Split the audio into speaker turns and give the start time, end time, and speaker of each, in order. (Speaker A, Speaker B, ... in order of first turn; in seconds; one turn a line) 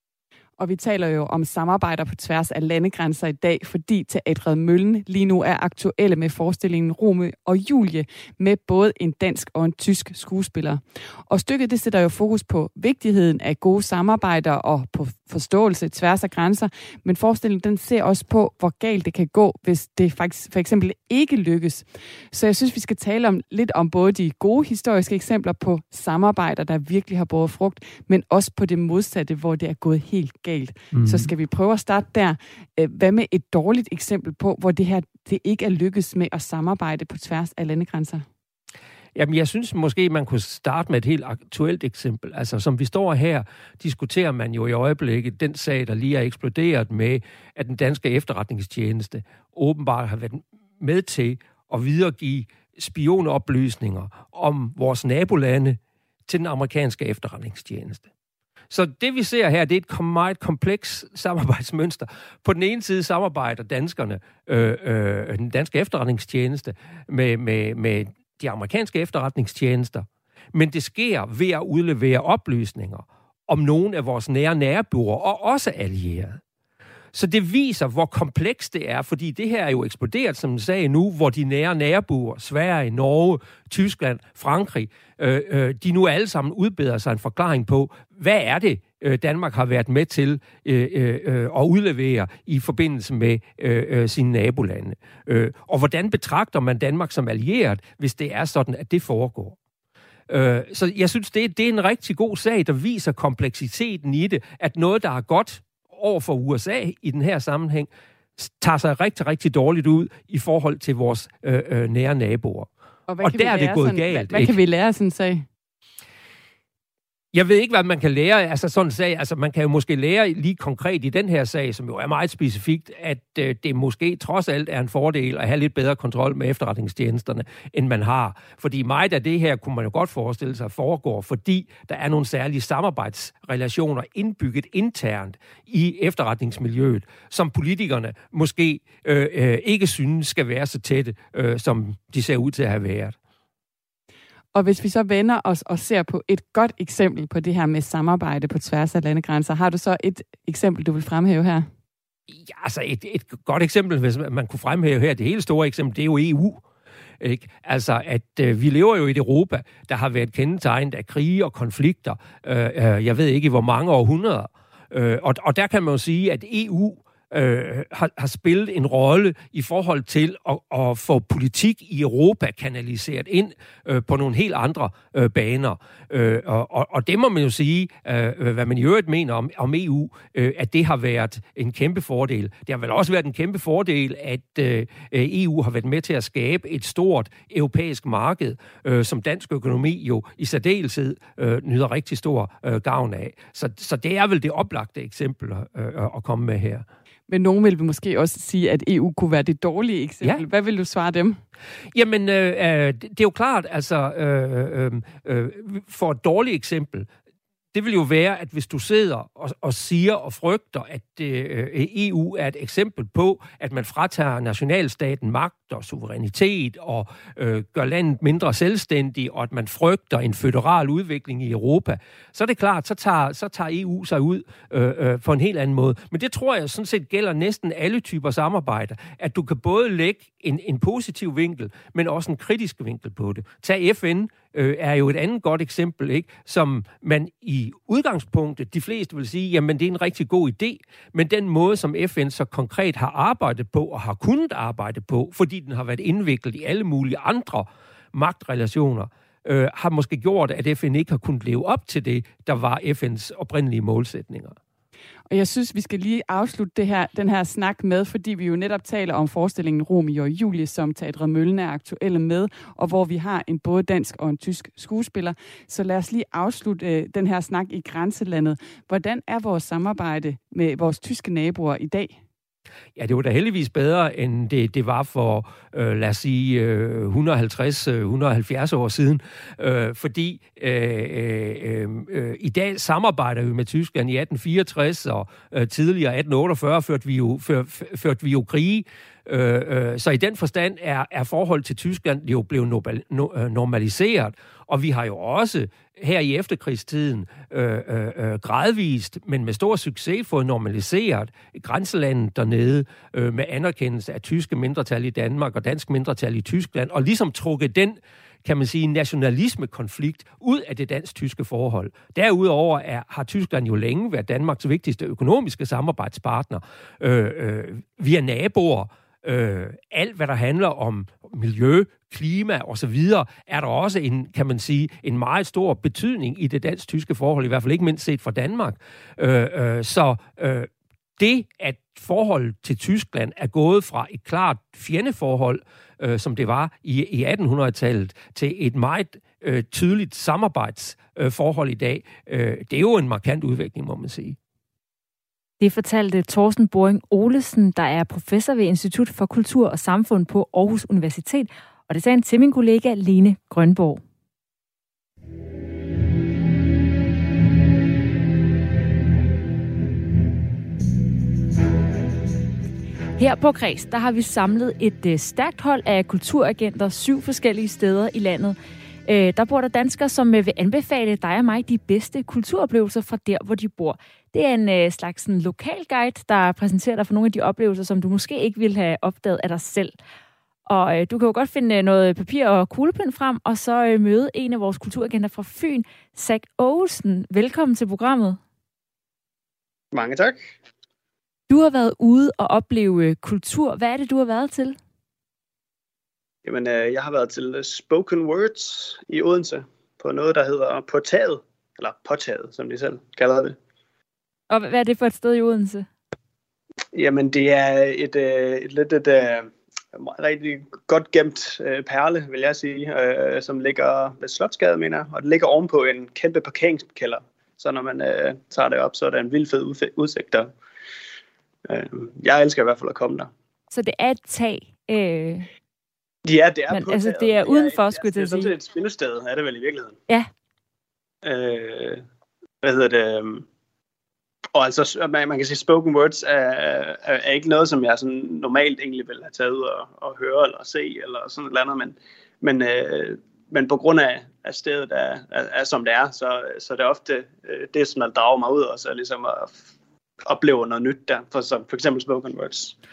Speaker A: 0.6-38.2
Speaker B: 30.9-31.3
Speaker B: 39.1-58.1
Speaker B: 58.7-76.4
Speaker B: 77.1-99.6
Speaker B: 100.3-112.7
Speaker A: 113.1-115.5
Speaker B: 113.2-114.6
Speaker B: 117.3-143.2
Speaker A: 144.6-151.7
Speaker B: 152.3-156.6
Speaker B: 157.2-196.8
Speaker A: 197.3-201.4
Speaker B: 201.9-207.1
Speaker B: 207.7-254.6
Speaker A: 255.3-272.2
Speaker B: 273.0-344.4
Speaker C: 345.6-354.0
Speaker C: 363.2-379.9
Speaker C: 380.7-388.4
Speaker D: 389.9-390.4
Speaker C: 391.5-394.8
Speaker D: 396.4-403.6
Speaker C: 404.5-405.9
Speaker D: 406.9-420.5
Speaker D: 421.7-423.3
Speaker C: 423.7-425.5
Speaker D: 426.2-430.0
Speaker C: 426.7-428.5
Speaker D: 431.2-432.0
Speaker D: 432.6-433.4
Speaker D: 434.5-449.6
Speaker D: 450.2-452.8